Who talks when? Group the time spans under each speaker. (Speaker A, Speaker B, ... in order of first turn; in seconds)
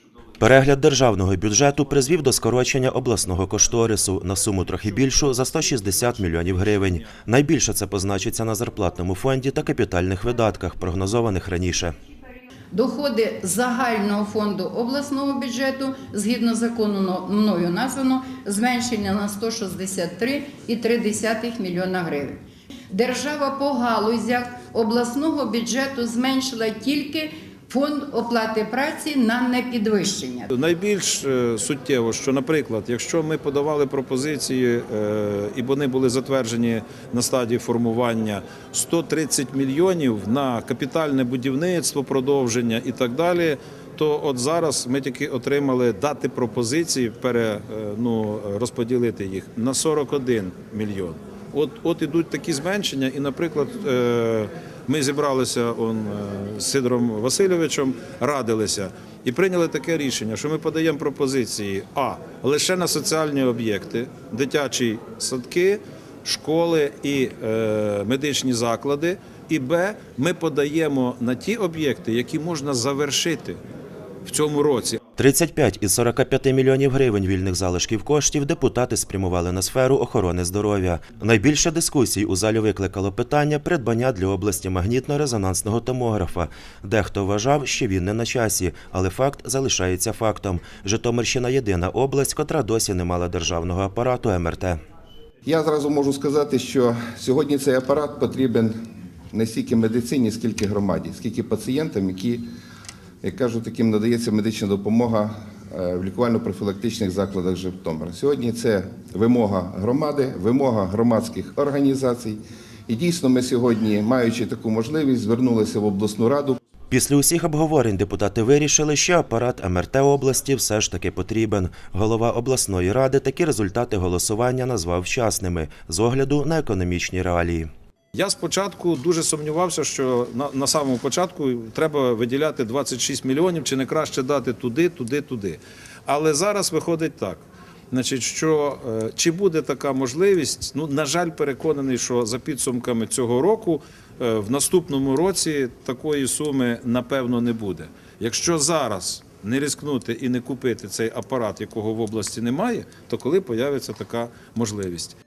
Speaker A: 0.4-11.9, 75.2-94.8, 116.9-127.7
Speaker B: 6.8-7.1, 30.5-73.6, 74.2-75.0, 128.1-155.2
Speaker C: 12.7-30.5
Speaker D: 95.5-98.7, 99.3-102.5, 103.2-116.6